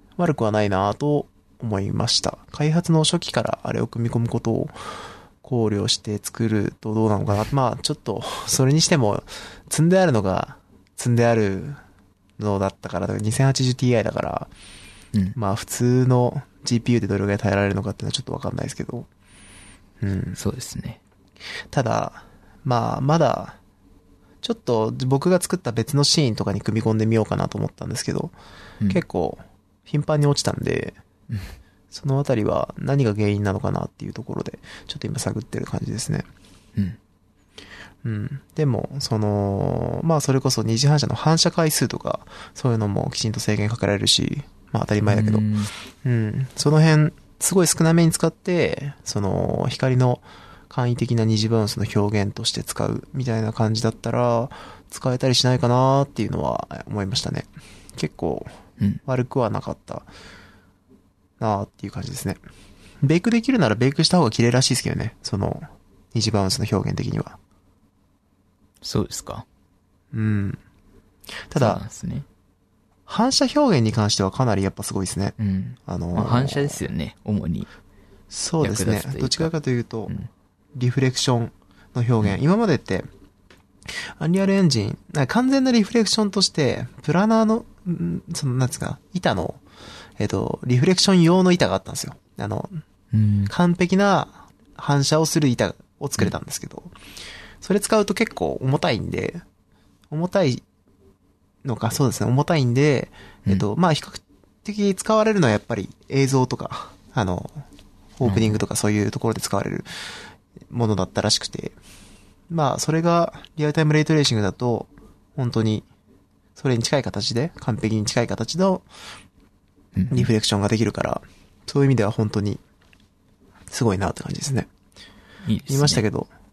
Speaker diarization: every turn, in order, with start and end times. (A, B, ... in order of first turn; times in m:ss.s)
0:00.2-0:11.8 A
0:12.4-0:14.5 A
0:15.3-0:19.1 A
0:20.0-0:20.4 A
0:20.4-0:21.0 B
0:21.7-0:23.6 A
0:24.4-0:28.3 A
0:28.9-0:31.0 A
0:31.9-0:36.3 A
0:38.0-1:00.1 A
0:45.1-0:45.7 B
1:01.4-1:02.4 A
1:03.0-1:07.4 A
1:08.8-1:09.4 B
1:10.1-1:10.6 A
1:11.5-1:11.8 A
1:11.5-1:12.2 B
1:13.1-1:16.8 A
1:15.4-1:17.7 B
1:18.3-1:20.1 A
1:18.6-1:19.5 B
1:20.7-1:23.1 A
1:23.9-1:29.6 A
1:30.2-1:32.8 A
1:33.1-1:33.5 B
1:33.5-1:36.9 A
1:37.6-1:39.4 A
1:40.1-1:40.6 A
1:41.6-1:47.6 A
1:48.2-1:51.8 A
1:48.2-1:48.6 B
1:52.5-1:55.8 A
1:56.6-1:58.8 A
1:59.9-2:00.3 B
2:00.1-2:02.6 A
2:03.7-2:04.7 A
2:05.4-2:06.0 B
2:05.7-2:06.3 A